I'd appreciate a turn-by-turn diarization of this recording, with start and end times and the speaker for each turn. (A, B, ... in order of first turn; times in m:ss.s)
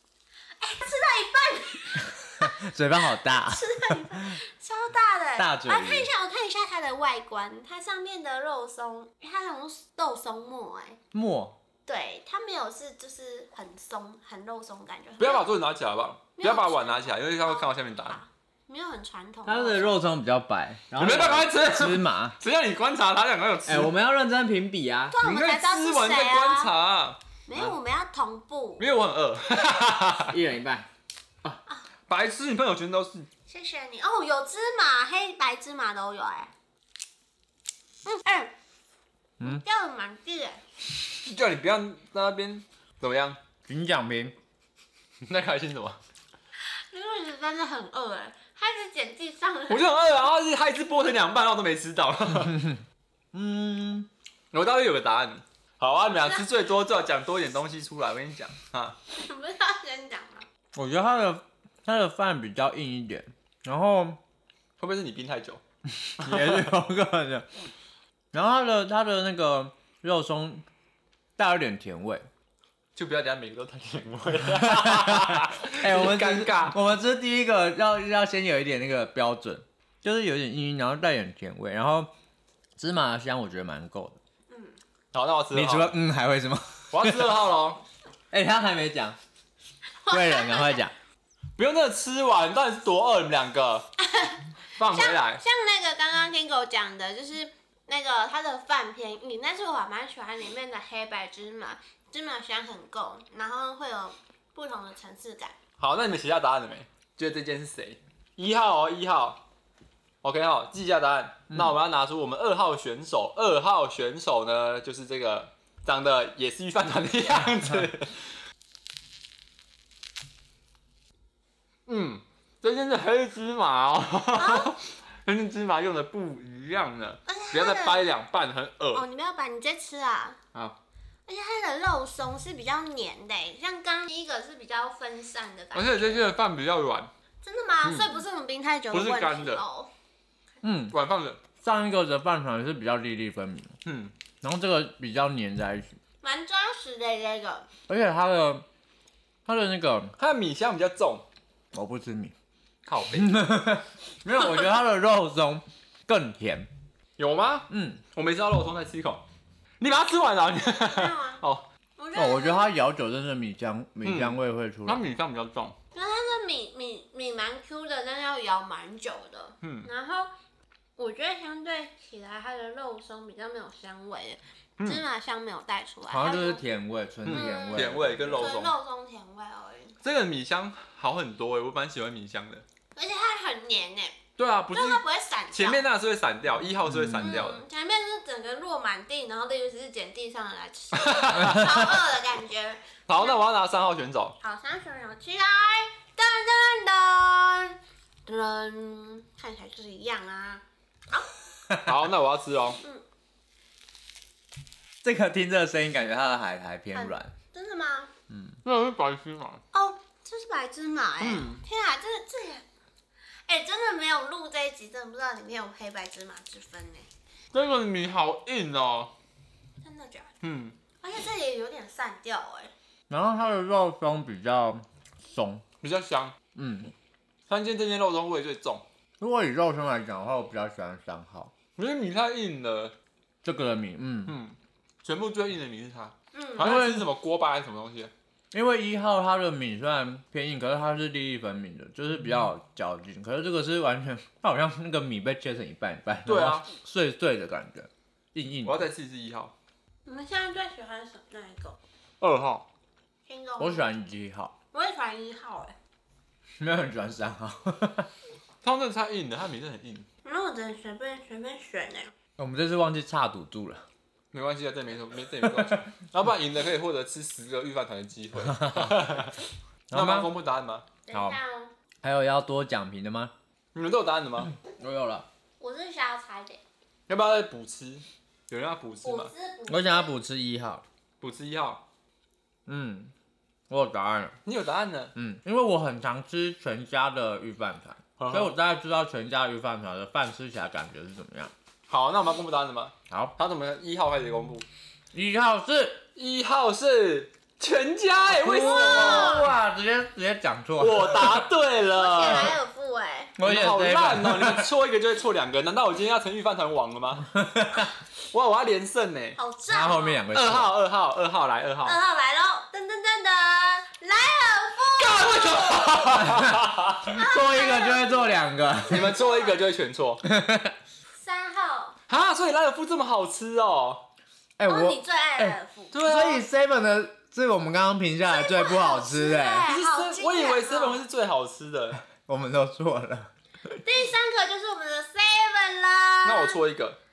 0:00.6-0:02.6 A
0:02.4-0:04.4 B
0:03.1-0:11.0 A
0:05.4-0:06.1 B
0:11.1-0:11.6 B
0:11.9-0:15.5 A
0:15.2-0:18.2 C
0:16.4-0:20.0 A
0:19.4-0:22.4 B
0:21.0-0:23.9 C
0:23.7-0:25.2 B
0:25.1-0:26.7 A
0:25.2-0:27.7 C
0:27.5-0:28.9 A
0:28.8-0:30.4 C
0:30.3-0:30.9 B
0:32.1-0:33.3 C
0:33.5-0:36.5 A
0:38.0-0:38.5 A
0:39.4-0:40.6 A
0:41.2-0:43.4 C
0:43.7-0:44.4 B
0:45.3-0:46.0 C
0:46.6-0:49.9 A
0:49.7-0:52.6 C
0:52.5-0:52.8 B
0:53.3-0:54.1 B
0:54.5-0:59.0 C
0:56.2-0:56.4 A
0:59.1-1:00.5 A
1:00.7-1:04.2 B
1:04.8-1:05.6 C
1:06.0-1:07.5 B
1:06.2-1:06.7 C
1:08.3-1:10.6 B
1:11.4-1:12.3 B
1:13.0-1:16.8 C
1:14.4-1:22.1 B
1:22.8-1:24.2 B
1:24.5-1:24.8 A
1:25.1-1:25.9 C
1:25.5-1:27.3 B
1:26.9-1:27.8 C
1:28.3-1:29.2 B
1:30.0-1:30.9 A
1:30.1-1:30.9 B
1:31.6-1:33.9 C
1:34.0-1:45.6 A
1:34.8-1:35.4 C
1:45.8-1:49.4 C
1:50.2-1:58.3 C
2:01.9-2:09.0 C
2:04.4-2:04.7 A
2:07.3-2:08.1 A
2:08.9-2:10.4 A
2:11.3-2:16.3 A
2:15.7-2:17.1 C
2:17.4-2:19.9 A
2:17.8-2:18.2 C
2:18.9-2:19.6 C
2:20.6-2:21.0 B
2:20.9-2:21.4 C
2:21.6-2:23.8 B
2:23.8-2:24.1 C
2:24.4-2:26.0 B
2:26.2-2:27.7 A
2:27.9-2:28.6 B
2:29.5-2:30.2 B
2:30.2-2:31.2 C
2:31.7-2:32.3 B
2:32.9-2:33.4 C
2:33.2-2:36.7 B
2:37.2-2:39.2 C
2:37.7-2:38.0 B
2:39.8-2:41.6 C
2:40.7-2:41.4 A
2:42.0-2:42.7 A
2:42.2-2:45.0 B
2:44.0-2:45.8 C
2:45.9-2:50.3 A
2:49.6-2:49.9 C
2:51.0-2:56.6 A
2:56.1-2:58.5 B
2:57.3-2:58.8 C
2:57.3-3:00.0 A
3:00.0-3:02.6 C
3:03.0-3:04.2 A
3:04.4-3:05.0 C
3:04.7-3:05.8 A
3:05.5-3:07.6 C
3:06.9-3:07.4 B
3:07.2-3:13.4 A
3:11.0-3:11.9 C
3:13.1-3:14.4 C
3:14.4-3:21.3 A
3:21.8-3:22.8 C
3:25.0-3:27.3 B
3:26.9-3:28.1 A
3:28.3-3:28.6 B
3:28.6-3:29.6 C
3:29.7-3:32.6 A
3:31.2-3:31.6 C
3:33.5-3:37.1 A
3:37.5-3:39.1 C
3:39.8-3:40.3 A
3:40.4-3:40.8 C
3:41.0-3:42.7 A
3:43.1-3:45.6 B
3:45.8-3:46.4 C
3:46.6-3:46.9 B
3:47.5-3:48.8 C
3:49.2-3:51.5 B
3:51.8-3:53.0 C
3:53.4-3:54.4 B
3:54.3-3:58.1 C
3:56.3-3:56.8 A
3:56.6-3:57.1 B
3:58.5-4:08.8 B
4:06.2-4:06.7 C
4:08.6-4:09.5 C
4:10.1-4:11.8 A
4:12.2-4:12.6 C
4:13.3-4:13.9 A
4:13.6-4:14.5 B
4:14.7-4:15.8 A
4:16.6-4:18.1 B
4:18.6-4:20.1 C
4:20.2-4:22.1 A
4:22.4-4:23.8 B
4:24.3-4:29.4 C
4:28.5-4:29.2 B
4:29.9-4:30.3 B
4:29.9-4:30.9 C
4:31.1-4:31.7 A
4:31.1-4:31.4 B
4:32.0-4:33.3 B
4:33.8-4:34.5 C
4:34.6-4:35.3 B
4:35.6-4:36.6 A
4:37.1-4:39.3 C
4:39.0-4:40.2 A
4:39.7-4:40.8 B
4:41.2-4:41.8 C
4:42.7-4:43.1 B
4:43.7-4:44.4 B
4:44.5-4:45.1 C
4:45.2-4:51.5 B
4:48.2-4:48.6 C
4:51.9-4:54.6 C
4:55.1-4:56.0 B
4:56.2-4:59.5 C
4:58.3-5:01.5 B
4:58.6-4:59.5 A
5:00.8-5:02.6 C
5:02.0-5:03.4 A
5:03.4-5:04.7 B
5:03.4-5:07.3 C
5:07.3-5:07.9 B
5:08.3-5:09.4 C
5:09.4-5:10.2 A
5:09.7-5:10.7 B
5:10.3-5:12.0 C
5:11.8-5:15.9 A
5:15.0-5:17.2 C
5:16.2-5:19.1 B
5:17.1-5:19.6 A
5:18.9-5:20.2 C
5:20.2-5:20.8 B
5:21.2-5:22.0 A
5:22.1-5:24.0 C
5:24.6-5:29.7 B
5:24.7-5:26.0 A
5:25.9-5:26.4 C
5:28.3-5:31.0 A
5:29.7-5:32.0 C
5:32.1-5:33.3 B
5:33.8-5:36.6 A
5:36.2-5:37.0 C